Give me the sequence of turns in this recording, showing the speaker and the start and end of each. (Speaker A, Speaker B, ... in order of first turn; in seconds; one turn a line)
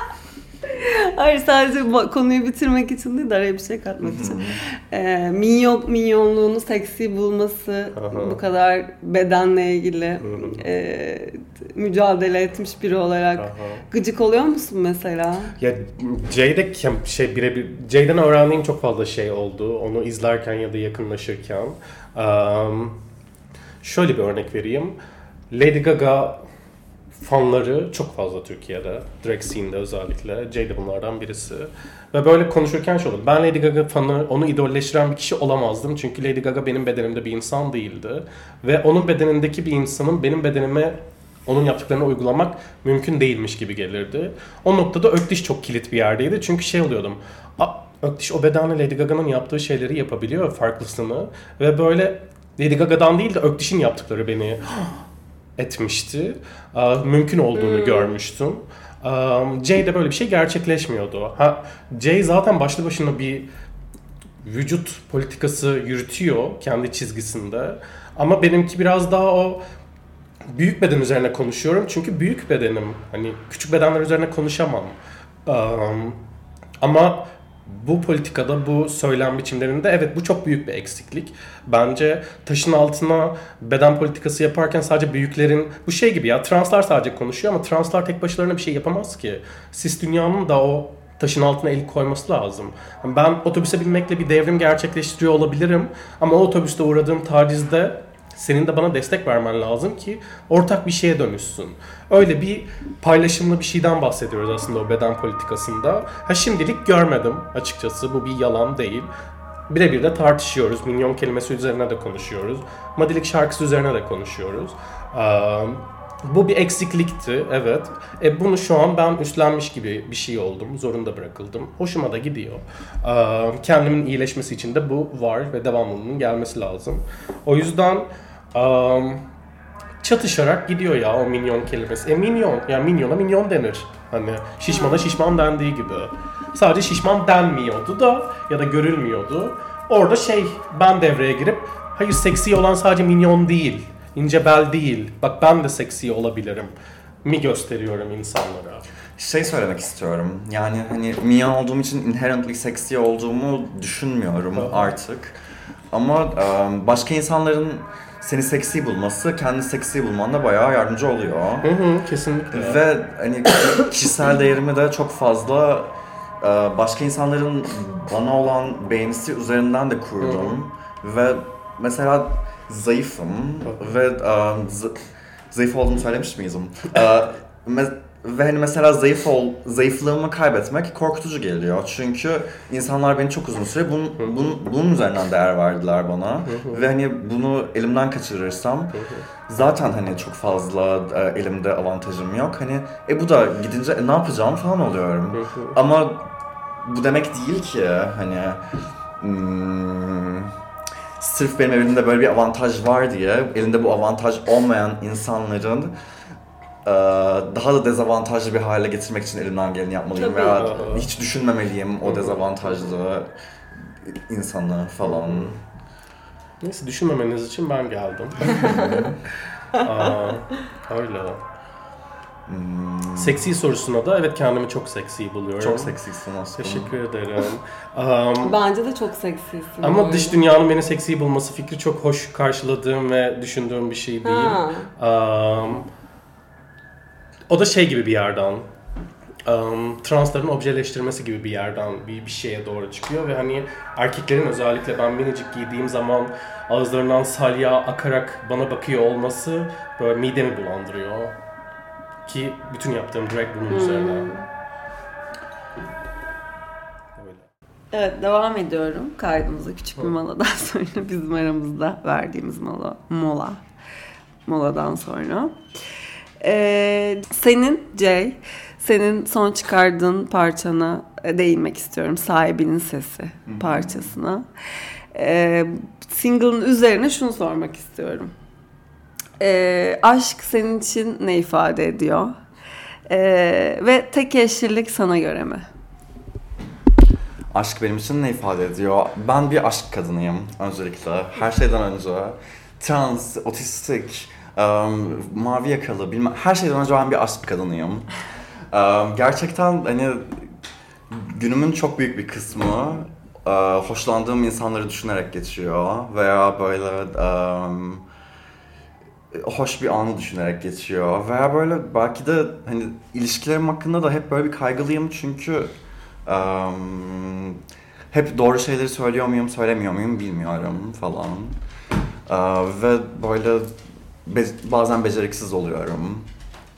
Speaker A: 0.7-15.6
Speaker B: 4.0-4.6
Speaker C: 7.9-8.4
Speaker C: 10.2-10.6
Speaker C: 13.4-13.8
Speaker C: 15.6-23.0
Speaker C: 23.8-25.0
Speaker C: 25.5-26.4
Speaker C: 27.1-55.0
Speaker C: 55.6-63.5
Speaker A: 57.5-58.1
Speaker C: 64.4-69.6
Speaker C: 70.5-75.0
Speaker C: 75.5-76.2
Speaker C: 76.8-109.1
Speaker C: 109.7-129.2
Speaker C: 130.0-146.7
Speaker A: 134.7-135.1
Speaker C: 147.2-148.8
Speaker B: 149.2-155.4
Speaker C: 154.6-154.9
Speaker B: 155.9-161.7
Speaker C: 161.6-162.8
Speaker B: 162.5-174.9
Speaker C: 170.2-170.6
Speaker B: 175.5-189.0
Speaker C: 186.5-186.8
Speaker C: 188.9-189.2
Speaker B: 189.5-196.3
Speaker C: 195.3-195.8
Speaker B: 196.8-200.6
Speaker B: 201.2-205.9
Speaker B: 206.8-213.3
Speaker A: 210.2-210.8
Speaker C: 210.5-211.1
Speaker C: 212.0-212.4
Speaker B: 213.9-215.6
Speaker C: 215.0-215.6
Speaker C: 216.6-218.9
Speaker B: 218.4-219.2
Speaker A: 218.5-218.9
Speaker C: 219.7-221.4
Speaker B: 222.5-223.4
Speaker C: 223.2-225.9
Speaker B: 225.6-226.9
Speaker C: 226.6-228.6
Speaker A: 228.4-230.4
Speaker C: 229.8-235.9
Speaker A: 234.2-234.9
Speaker C: 237.5-238.7
Speaker C: 239.4-251.3
Speaker C: 252.3-254.3
Speaker A: 253.7-254.5
Speaker C: 257.2-257.4
Speaker A: 257.9-263.6
Speaker A: 264.5-265.6
Speaker A: 266.4-274.5
Speaker B: 273.5-274.1
Speaker A: 275.1-278.3
Speaker A: 279.4-282.4
Speaker A: 283.1-285.7
Speaker B: 287.5-298.1
Speaker B: 298.7-300.4
Speaker B: 301.1-308.1
Speaker B: 309.3-315.7
Speaker B: 316.3-317.6
Speaker B: 318.1-321.6
Speaker B: 322.3-323.7
Speaker B: 324.2-326.3